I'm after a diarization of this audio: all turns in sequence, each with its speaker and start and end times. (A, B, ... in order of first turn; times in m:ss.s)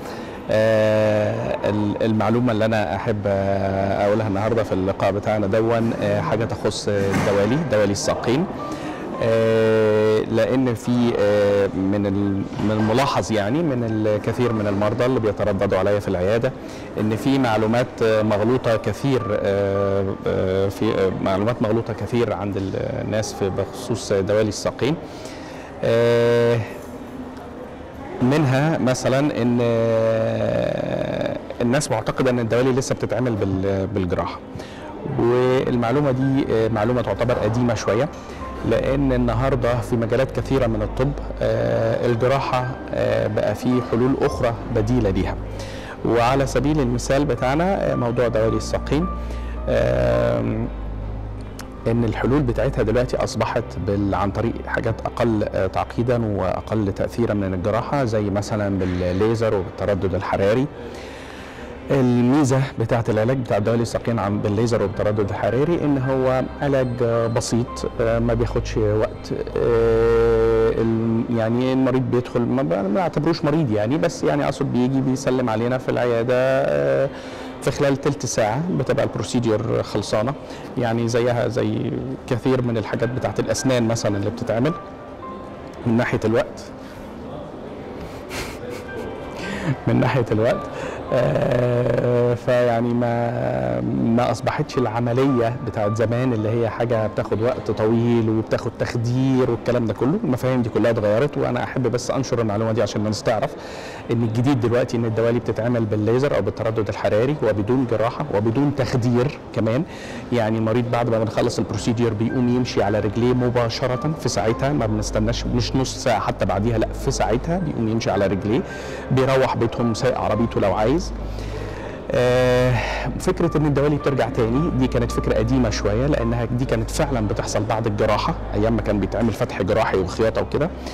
0:00.5-0:08.5 A
0:09.2-0:25.0 A
0:25.8-0:26.7 A
0:28.2-0:34.4 A
0:35.0-0:38.1 A
0:38.6-0:45.4 A
0:46.0-0:49.1 A
0:49.7-0:50.7 A
0:51.9-1:00.7 A
1:01.9-1:24.8 A
1:25.8-1:26.7 A
1:29.5-1:43.6 A
1:44.1-2:01.1 A
2:02.1-2:10.7 A